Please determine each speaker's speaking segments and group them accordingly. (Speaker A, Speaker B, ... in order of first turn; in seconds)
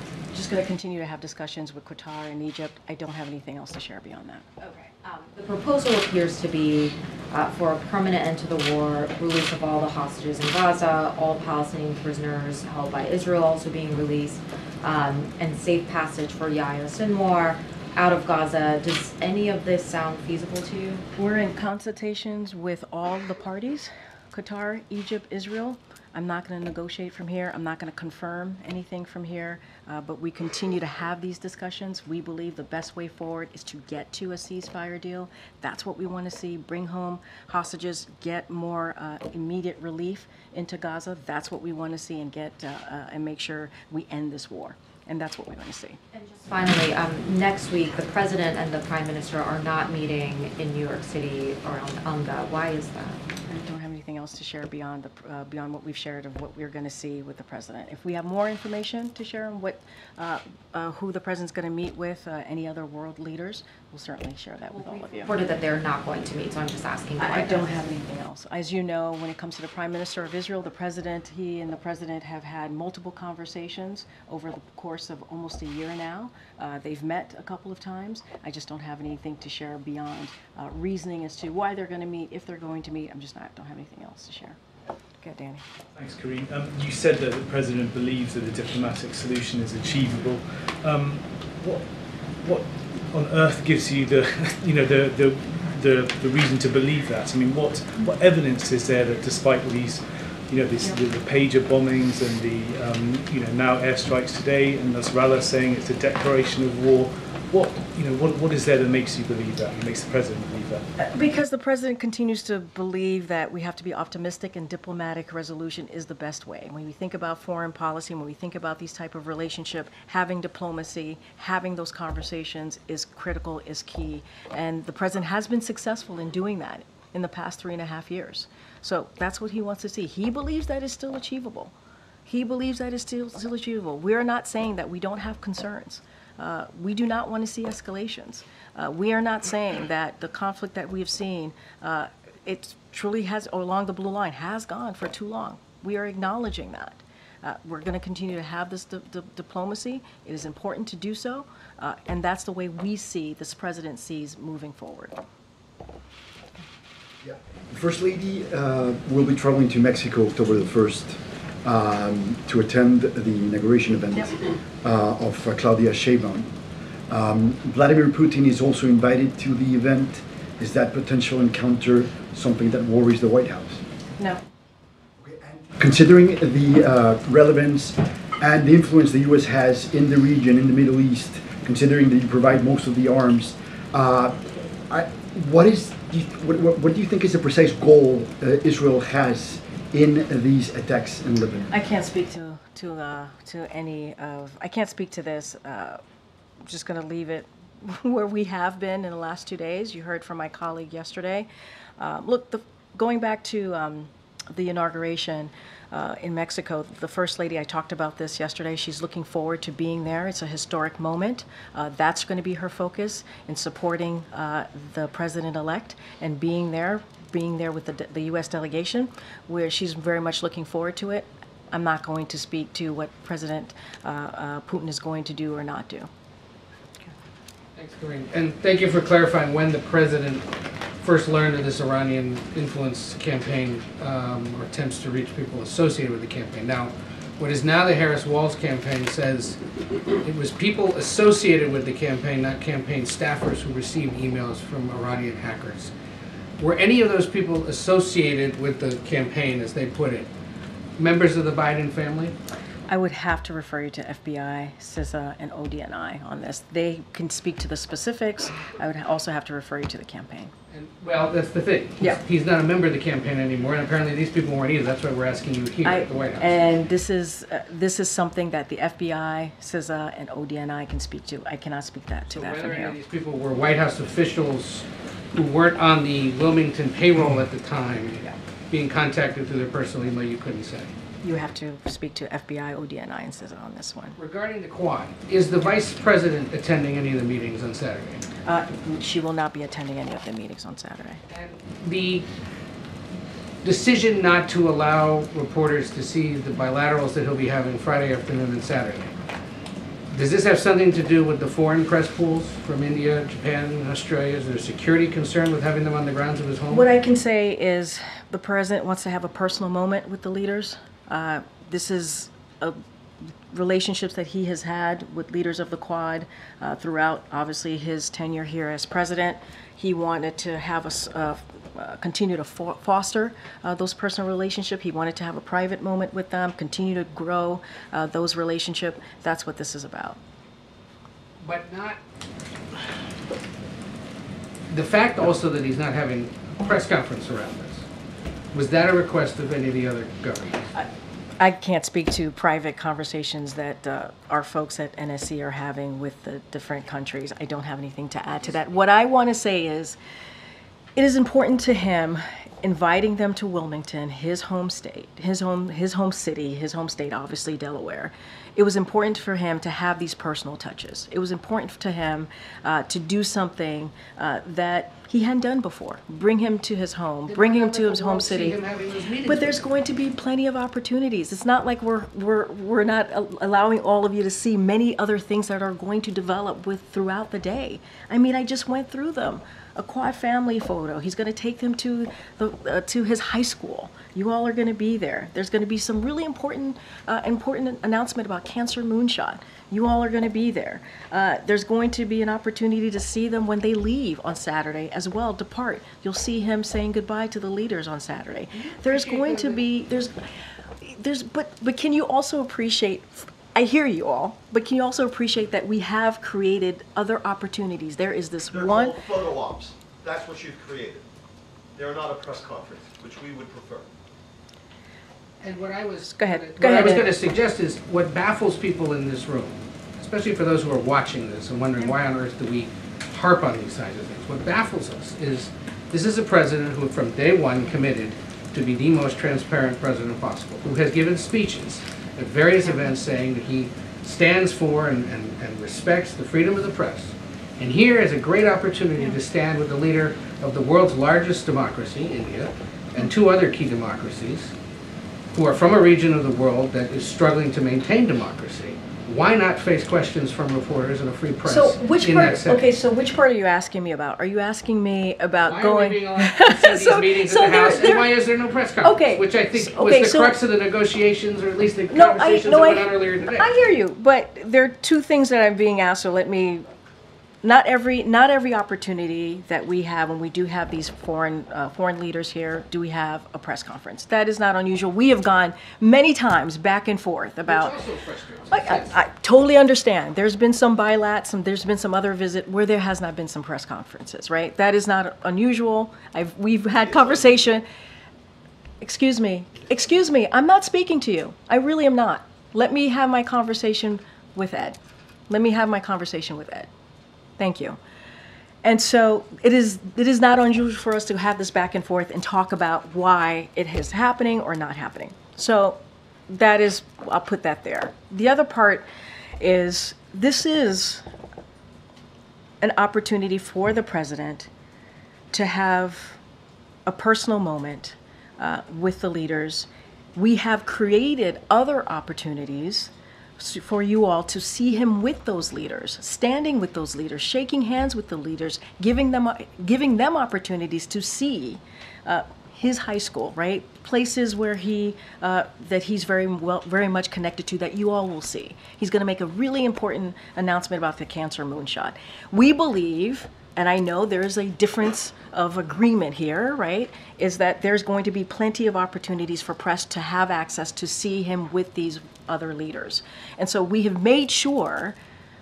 Speaker A: 0.3-4.5, 21.2-46.0, 53.5-65.3, 67.2-84.6, 85.2-85.7, 111.0-131.7, 132.3-155.2, 191.7-196.0, 196.7-201.5, 202.0-226.1, 252.9-260.5, 265.8-273.0, 281.2-284.2, 288.4-291.2, 306.7-312.8, 313.5-330.2, 341.4-350.0, 351.0-368.6, 369.2-400.1, 400.8-409.0, 416.1-417.1, 451.5-458.1, 458.8-460.4, 461.9-466.6, 467.4-477.8, 478.5-487.7, 488.8-496.7, 497.4-497.8, 498.6-508.9, 509.4-511.0, 512.6-514.5, 515.3-516.2, 516.9-555.0
Speaker B: 4.6-21.1, 46.1-53.2, 64.8-67.8
Speaker C: 85.9-110.9
Speaker D: 157.2-166.5, 167.1-173.8, 175.2-191.7
Speaker E: 227.8-230.5, 231.0-239.6, 240.2-245.9, 246.6-250.3, 251.0-252.4, 260.7-266.5, 272.3-280.9, 284.2-288.2, 291.3-292.3, 293.6-299.1, 300.1-306.9, 331.4-332.0, 334.7-337.9, 338.5-340.6, 367.2-369.6, 398.6-399.6, 415.4-444.5, 445.3-452.7, 455.4-463.5, 477.4-479.0
Speaker F: 408.5-411.1, 411.8-413.9